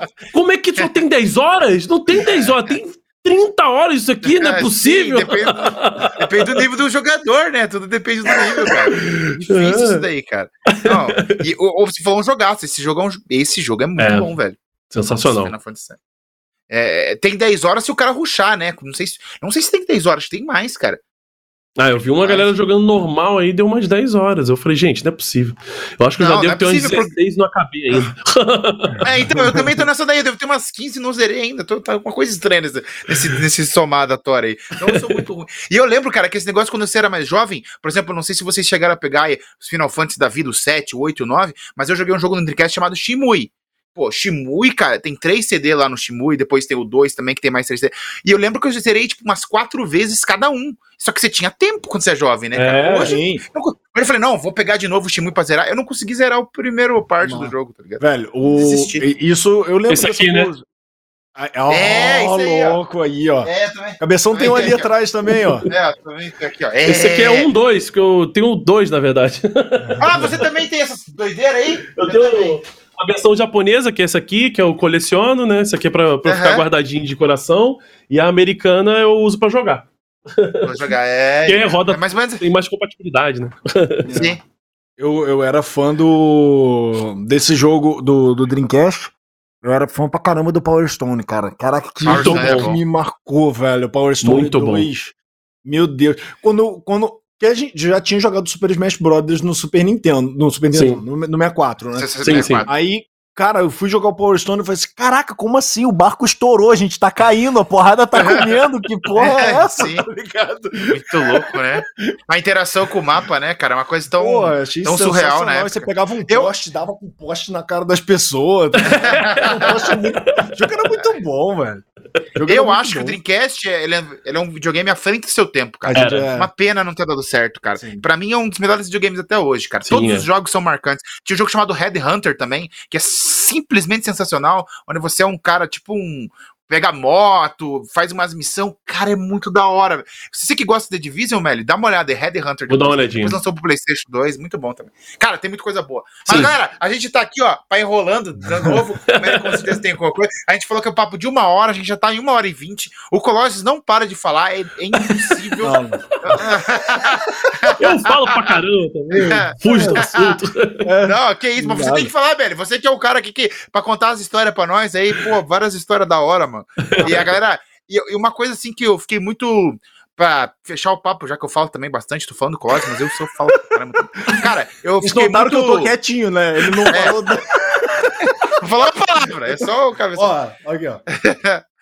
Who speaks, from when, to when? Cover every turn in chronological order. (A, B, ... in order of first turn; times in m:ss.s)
0:00.3-0:06.5 A
0:04.2-0:16.0 B
0:08.9-0:10.0 A
0:10.7-0:11.4 A
0:14.0-0:14.3 A
0:14.9-0:15.5 A
0:16.7-0:21.0 B
0:21.8-0:29.0 A
0:22.2-0:22.5 B
0:26.2-0:27.1 B
0:29.0-0:29.8 C
0:29.0-0:58.0 B
0:52.5-0:53.2 A
0:52.9-0:53.4 C
0:57.2-1:00.6 C
0:58.5-0:59.0 B
0:59.9-1:00.5 A
1:01.4-1:05.7 C
1:01.7-1:02.8 B
1:03.4-1:04.9 B
1:05.7-1:07.5 B
1:06.8-1:10.2 A
1:09.8-1:10.3 C
1:10.0-1:12.6 B
1:11.9-1:20.7 A
1:16.2-1:16.6 B
1:20.6-1:22.4 B
1:21.5-1:24.1 A
1:24.0-1:24.4 C
1:24.1-1:24.4 B
1:25.0-1:51.8 C
1:32.0-1:32.7 A
1:32.1-1:32.8 B
1:34.2-1:34.9 A
1:40.7-1:41.0 A
1:42.0-1:42.7 B
1:42.2-1:42.7 A
1:48.2-1:48.5 B
1:49.2-1:50.1 B
1:50.9-1:56.5 B
1:54.2-2:01.8 C
1:58.8-2:00.5 A
1:58.8-1:59.8 B
2:02.4-2:03.2 C
2:02.5-2:38.5 B
2:05.8-2:06.5 C
2:06.0-2:06.3 A
2:07.8-2:08.0 C
2:09.8-2:10.3 A
2:22.7-2:23.4 A
2:28.5-2:28.8 C
2:29.1-2:29.7 A
2:35.6-2:36.0 C
2:37.8-2:40.9 A
2:39.2-2:40.1 C
2:39.2-2:40.4 B
2:40.8-2:42.1 C
2:41.0-2:55.9 B
2:46.8-2:47.1 A
2:55.0-2:58.3 C
2:56.9-2:57.3 B
2:58.6-3:00.3 B
3:00.2-3:01.0 C
3:01.1-3:01.6 B